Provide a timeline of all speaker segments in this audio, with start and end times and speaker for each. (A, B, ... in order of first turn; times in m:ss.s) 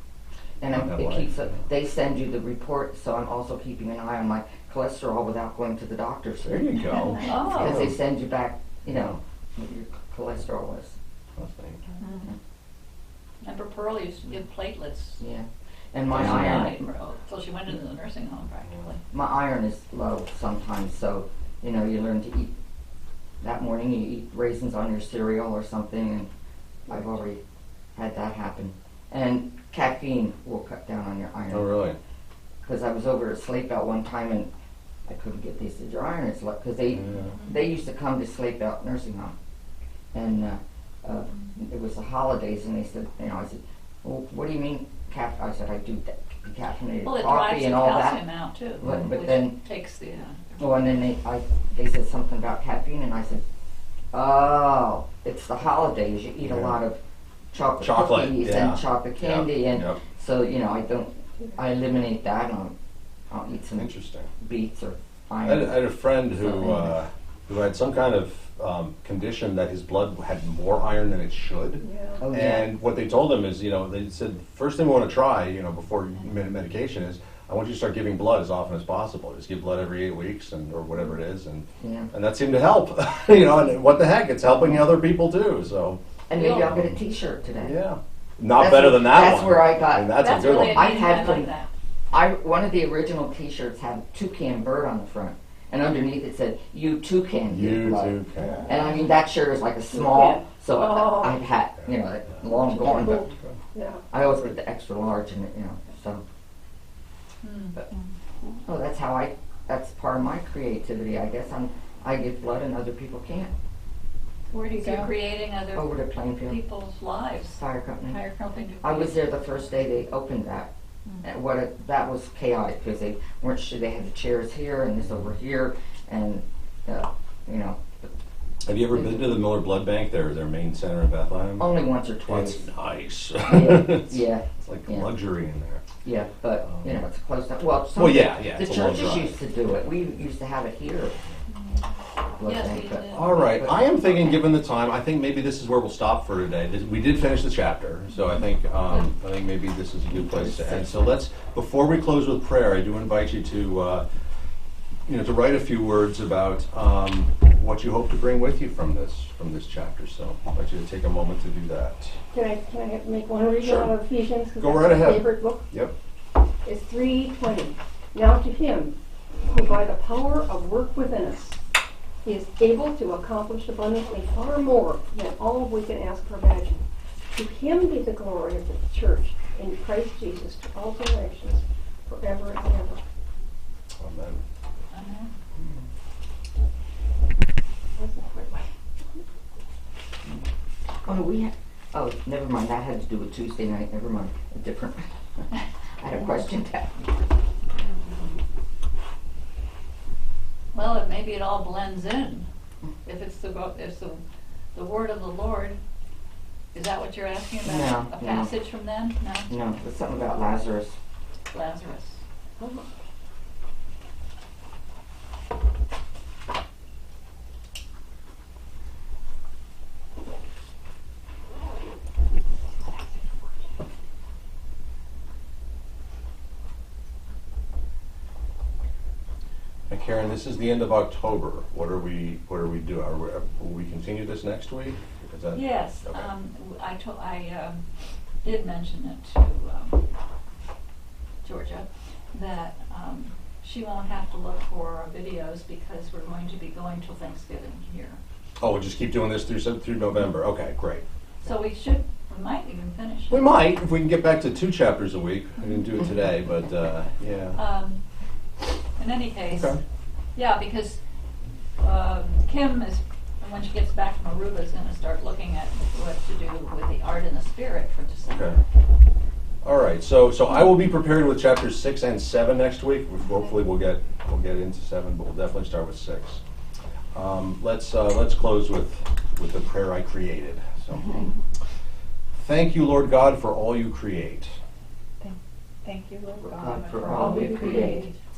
0:00.6-0:11.0 A
0:00.7-0:01.6 B
0:06.4-0:08.0 B
0:07.2-0:07.8 C
0:08.9-0:09.1 B
0:11.4-0:11.8 B
0:12.0-0:12.3 C
0:13.4-0:15.2 C
0:15.2-0:16.8 A
0:16.1-0:16.7 B
0:16.1-0:19.0 C
0:19.1-0:22.5 A
0:23.4-0:26.3 A
0:26.9-0:27.4 A
0:27.9-0:31.7 A
0:31.5-0:32.0 B
0:32.6-0:34.5 A
0:35.1-0:39.3 A
0:36.9-0:37.3 B
0:37.3-0:37.6 C
0:40.1-0:48.2 A
0:47.0-0:50.8 C
0:48.8-0:49.1 B
0:48.8-0:49.6 A
0:50.6-0:53.4 A
0:54.1-0:57.0 A
0:56.4-0:56.8 B
0:57.5-1:02.7 A
0:57.8-1:00.0 B
1:03.3-1:03.9 A
1:03.7-1:04.3 B
1:04.4-1:07.0 A
1:05.4-1:26.0 B
1:11.8-1:12.2 D
1:12.2-1:12.7 A
1:21.8-1:22.1 A
1:26.3-1:27.8 A
1:26.3-1:26.7 C
1:26.6-1:27.0 B
1:27.6-1:31.1 B
1:28.5-1:31.5 A
1:30.2-1:31.7 C
1:32.1-1:43.3 A
1:37.5-1:38.8 B
1:38.7-1:39.1 C
1:39.9-1:41.4 D
1:41.8-1:42.4 B
1:42.5-1:44.0 D
1:43.2-1:43.6 B
1:44.1-1:46.2 A
1:47.4-1:47.8 C
1:48.6-1:53.5 A
1:54.5-1:59.5 C
1:54.6-1:55.1 E
1:55.7-1:56.6 A
1:57.5-1:58.2 A
1:58.8-2:00.7 A
2:01.2-2:08.1 A
2:08.6-2:11.7 B
2:08.9-2:09.4 A
2:11.6-2:12.7 A
2:12.3-2:15.8 B
2:13.4-2:15.1 A
2:16.0-2:21.2 A
2:16.6-2:17.0 B
2:17.9-2:19.4 B
2:21.5-2:24.0 C
2:22.4-2:23.7 A
2:23.1-2:34.0 B
2:30.1-2:31.2 A
2:35.0-2:42.2 B
2:42.3-2:45.6 D
2:43.6-2:43.9 B
2:44.6-2:45.9 B
2:46.6-2:49.0 D
2:49.5-2:51.6 D
2:52.2-3:03.0 D
3:04.0-3:04.4 B
3:04.9-3:05.3 C
3:08.0-3:08.7 D
3:11.0-3:15.4 A
3:16.0-3:17.3 A
3:17.8-3:18.0 C
3:20.7-3:22.5 C
3:23.0-3:24.2 C
3:24.7-3:25.8 C
3:26.7-3:29.5 C
3:27.6-3:28.5 A
3:29.5-3:31.0 A
3:31.5-3:32.2 C
3:32.6-3:32.8 D
3:49.9-3:56.3 B
3:55.5-3:57.8 C
3:58.4-4:00.0 C
4:01.4-4:08.2 C
4:08.6-4:11.0 B
4:11.4-4:13.5 C
4:13.3-4:17.6 B
4:17.6-4:18.0 C
4:19.0-4:19.7 C
4:19.5-4:19.8 B
4:20.3-4:21.0 C
4:21.8-4:28.6 C
4:28.3-4:28.6 B
4:29.6-4:36.4 B
4:37.1-4:41.3 B
4:42.4-4:44.6 B
4:45.2-4:48.1 E
4:46.4-4:48.0 A
4:47.0-4:48.1 C
4:47.2-4:47.8 D